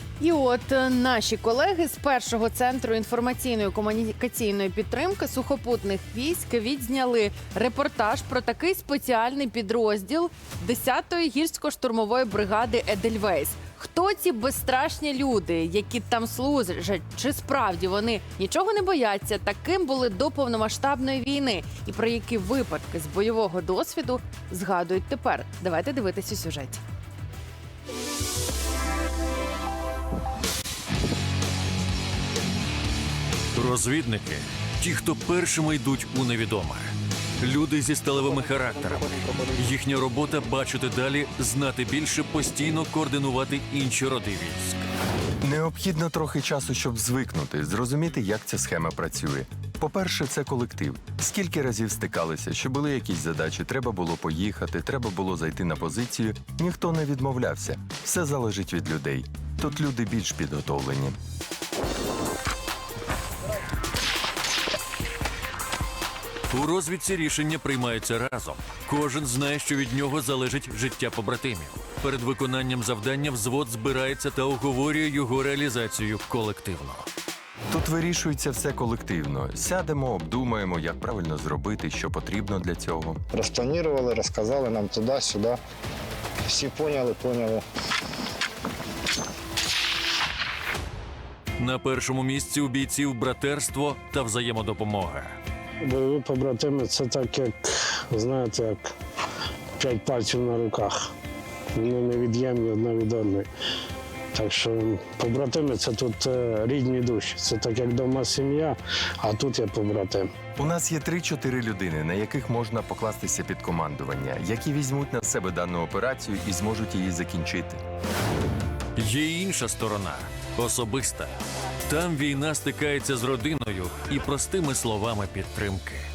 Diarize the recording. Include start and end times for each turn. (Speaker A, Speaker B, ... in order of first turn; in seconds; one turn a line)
Speaker A: 0.2-26.8
Speaker B: 33.5-36.9
Speaker B: 37.4-44.8
Speaker C: 45.4-61.2
Speaker B: 66.5-77.0
Speaker C: 77.7-83.2
Speaker D: 83.3-85.6
Speaker D: 86.5-87.6
Speaker B: 91.6-95.3
Speaker E: 95.8-98.9
Speaker E: 99.8-101.1
Speaker E: 101.7-103.5
Speaker E: 104.3-110.3
Speaker C: 110.6-117.8
Speaker B: 119.0-121.3
Speaker B: 121.9-126.0